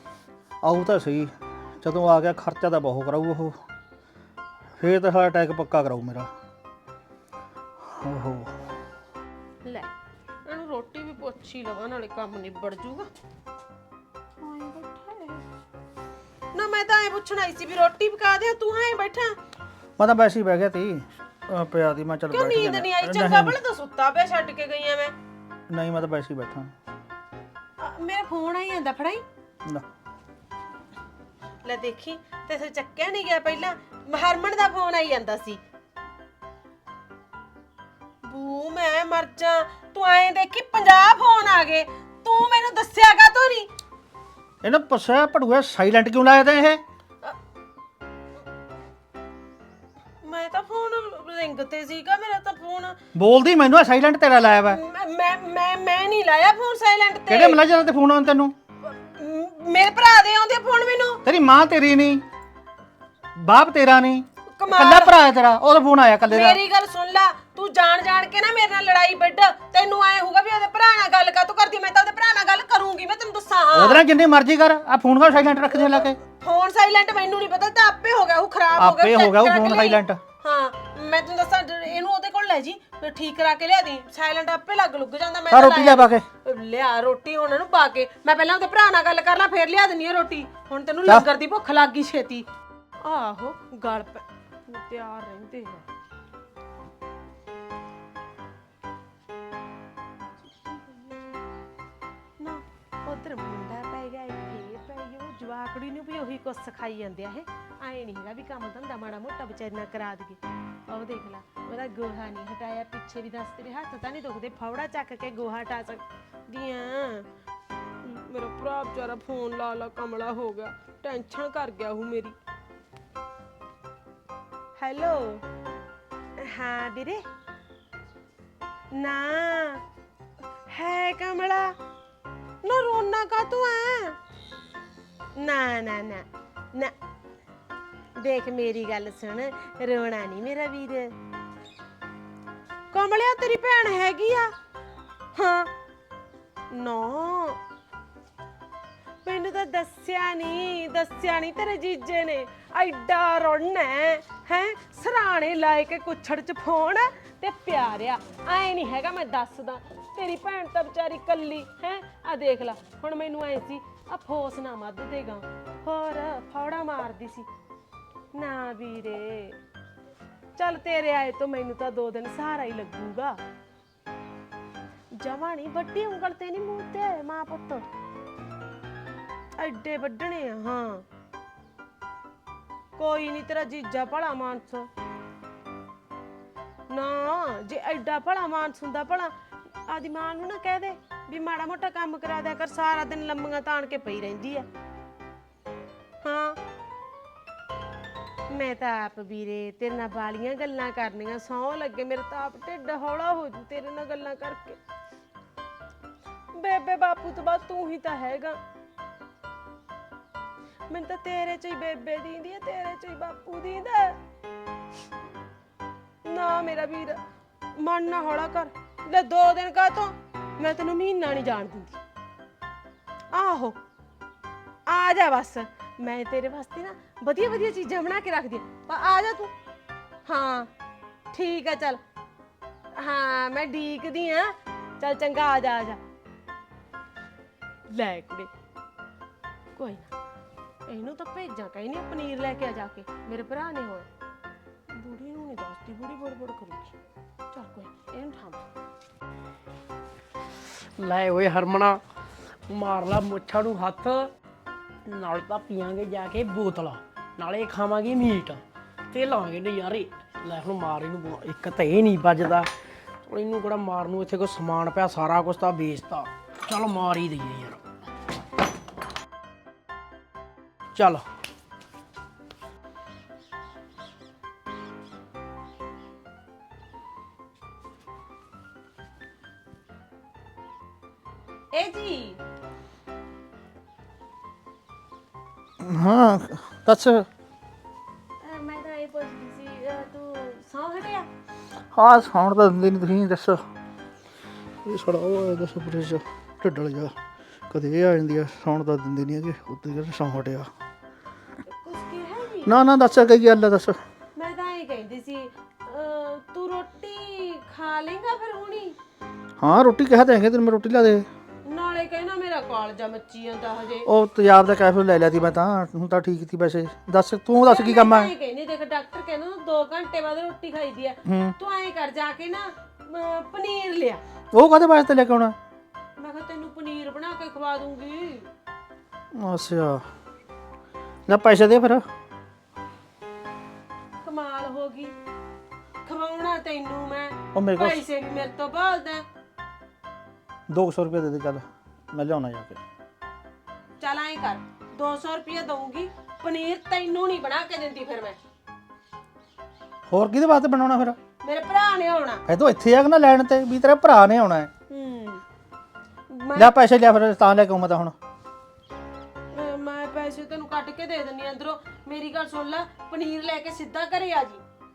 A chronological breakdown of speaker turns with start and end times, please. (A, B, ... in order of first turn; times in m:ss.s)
0:00.6-0:03.6 A
0:04.8-0:06.3 A
0:07.9-0:08.6 A
0:09.6-0:09.9 B
0:10.4-0:13.1 B
0:14.4-0:15.4 B
0:16.5-0:19.4 B
0:20.0-0:23.5 A
0:22.3-0:25.1 B
0:25.7-0:26.7 A
0:27.8-0:29.2 B
0:31.6-0:35.6 B
0:38.2-0:43.7 B
0:44.6-0:46.8 A
0:50.2-0:53.0 B
0:53.1-0:54.8 A
0:54.7-0:57.6 B
0:57.3-0:58.5 A
0:58.8-1:01.2 B
1:01.2-1:02.2 A
1:03.4-1:06.6 A
1:04.5-1:05.1 B
1:06.3-1:14.0 B
1:13.7-1:16.2 A
1:16.2-1:32.5 B
1:18.8-1:20.2 A
1:25.5-1:26.2 A
1:33.0-1:35.8 B
1:40.4-1:41.4 B
1:42.4-1:57.3 B
1:58.0-2:02.4 B
2:04.8-2:05.4 B
2:06.4-2:07.2 B
2:08.9-2:09.8 B
2:10.7-2:11.7 B
2:12.6-2:14.2 B
2:15.4-2:16.9 B
2:18.2-2:21.1 B
2:22.9-2:24.5 B
2:25.3-2:25.7 B
2:26.7-2:27.6 B
2:29.2-2:47.5 B
2:48.3-2:49.6 B
2:50.6-2:53.4 B
2:55.2-2:57.8 B
2:59.6-3:01.0 B
3:03.0-3:04.9 B
3:06.9-3:09.3 B
3:09.9-3:14.7 B
3:16.2-3:16.6 B
3:18.5-3:24.8 B
3:26.5-3:28.6 B
3:30.9-3:34.2 B
3:36.2-3:37.2 B
3:37.8-3:42.0 B
3:43.3-3:43.8 B
3:44.9-3:49.5 B
3:50.3-3:50.7 B
3:51.3-3:52.0 B
3:53.0-3:56.0 B
3:57.9-3:58.5 B
3:59.8-4:00.1 B
4:00.9-4:04.1 B
4:04.9-4:06.9 B
4:07.5-4:08.6 B
4:11.0-4:12.0 C
4:12.7-4:14.3 C
4:15.0-4:22.7 C
4:23.2-4:27.8 C
4:30.9-4:31.2 C
4:41.7-4:42.4 B
4:45.8-4:47.3 A
4:48.4-4:51.3 B
4:51.9-4:53.6 A
4:54.8-4:57.1 A
4:57.7-5:00.7 A
5:01.7-5:02.7 B
5:02.6-5:04.0 A
5:04.3-5:09.0 B
5:09.6-5:11.2 A
5:11.6-5:14.1 B
5:14.0-5:18.3 A
5:17.6-5:24.2 B
5:21.2-5:21.5 A
5:24.5-5:25.6 A
5:26.2-5:28.5 B
5:29.3-5:30.0 A
5:31.3-5:32.0 A
5:34.2-5:35.1 B
5:36.0-5:39.2 B
5:37.5-5:38.0 A
5:40.7-5:42.8 A
5:44.0-5:48.4 B
5:50.1-5:51.2 A
5:51.4-5:52.4 B
5:52.5-5:54.7 A
5:54.9-5:55.4 B
5:56.3-5:56.7 B
5:56.6-5:58.1 A
5:59.5-6:04.6 B